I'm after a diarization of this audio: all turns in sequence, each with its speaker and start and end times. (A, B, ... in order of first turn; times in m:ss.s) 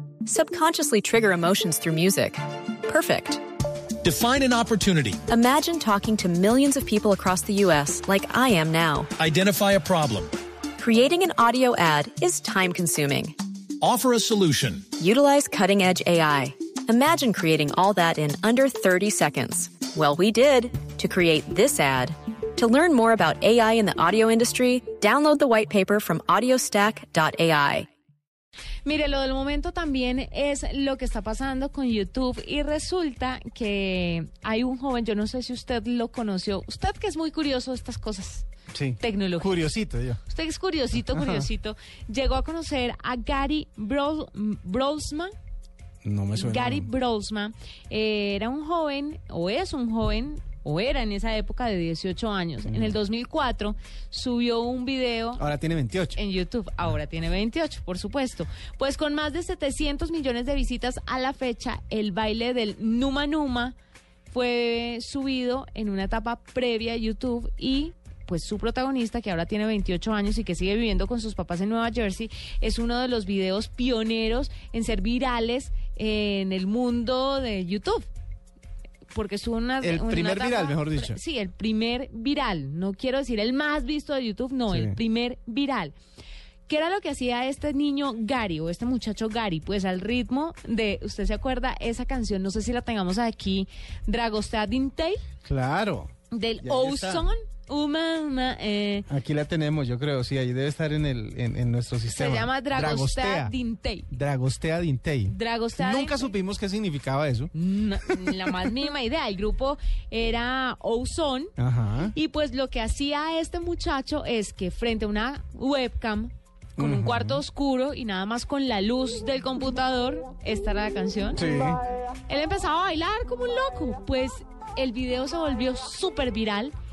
0:00.2-0:03.4 A
0:04.0-0:05.2 B
0:05.3-0:09.1 A
0:09.2-0:10.3 B
0:10.8-0:13.3 A
0:13.8-0:14.9 B
0:15.0-0:27.9 A
0:28.8-0:38.4 C
0:38.7-0:40.2 D
0:39.0-0:39.6 C
0:40.2-0:45.3 C
0:41.1-0:41.5 D
0:46.0-0:46.9 D
0:46.3-0:55.4 C
0:52.6-0:53.0 D
0:55.4-0:56.2 D
0:56.1-1:03.7 C
1:04.3-1:18.1 C
1:19.1-1:25.9 C
1:19.8-1:21.2 D
1:24.7-1:25.0 D
1:26.7-1:35.2 C
1:35.4-1:37.3 D
1:36.3-1:39.1 C
1:39.1-1:43.6 D
1:42.1-1:44.1 C
1:44.1-1:47.5 D
1:45.2-1:46.3 C
1:47.5-1:51.5 C
1:51.6-1:52.1 D
1:52.1-2:01.5 C
1:56.8-1:57.4 D
2:01.3-2:01.8 D
2:02.3-2:06.7 C